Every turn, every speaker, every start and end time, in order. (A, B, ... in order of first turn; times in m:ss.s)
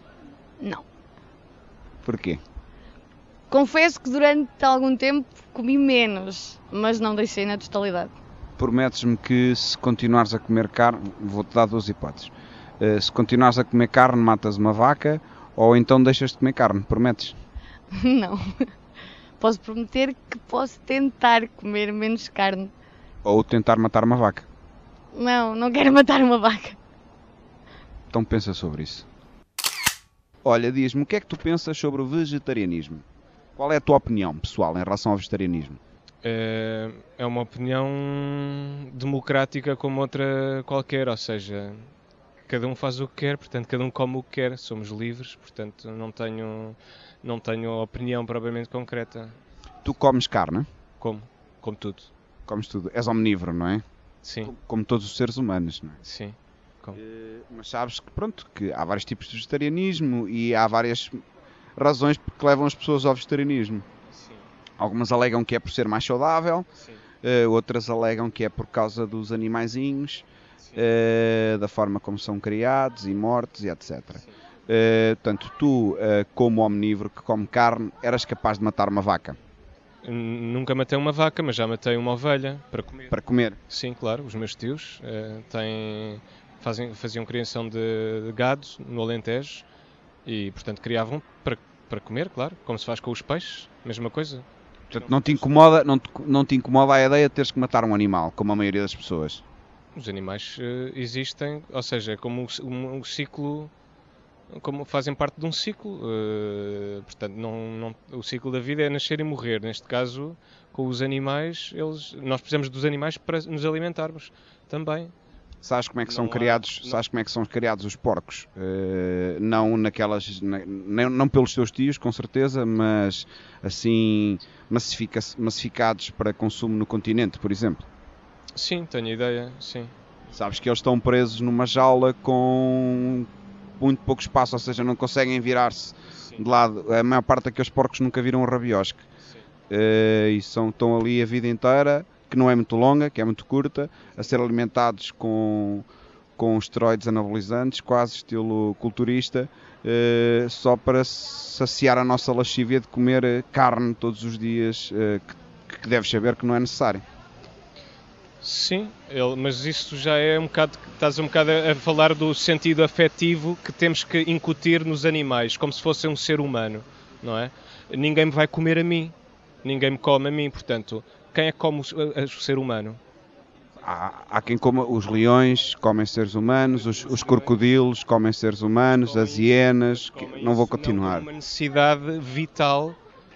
0:02.0-0:02.4 A
0:03.5-0:08.1 B
0:08.6-0:17.3 A
0:17.9-0:18.4 B
0:19.4-0:22.7 B
0:23.2-0:24.4 A
0:25.1-0:26.8 B
0:28.1-0:29.0 A
0:30.4-0:33.0 A
0:33.6-0:35.8 A
0:36.2-0:41.9 C
0:42.4-0:49.4 C
0:49.8-0:50.7 A
0:51.0-0:52.1 C
0:52.5-0:53.8 A
0:54.2-0:54.5 C
0:54.4-0:56.0 A
0:56.0-0:57.0 C
0:57.0-1:01.2 A
1:01.8-1:03.8 A
1:04.1-1:04.4 C
1:04.8-1:06.7 A
1:06.8-1:07.0 C
1:07.2-1:10.2 A
1:10.8-1:19.4 A
1:20.0-1:23.1 C
1:23.1-1:23.6 A
1:23.7-1:29.6 C
1:30.2-1:35.5 C
1:34.9-1:39.4 A
1:39.9-1:43.7 C
1:44.5-1:55.1 C
1:55.6-2:07.8 A
1:56.0-1:57.0 C
2:08.5-2:09.9 C
2:10.3-2:13.3 A
2:13.8-2:19.0 A
2:16.1-2:16.4 C
2:19.7-2:25.8 A
2:26.4-2:37.0 A
2:38.4-2:53.0 C
2:53.8-3:01.3 A
2:56.7-2:57.6 C
2:58.9-3:03.0 C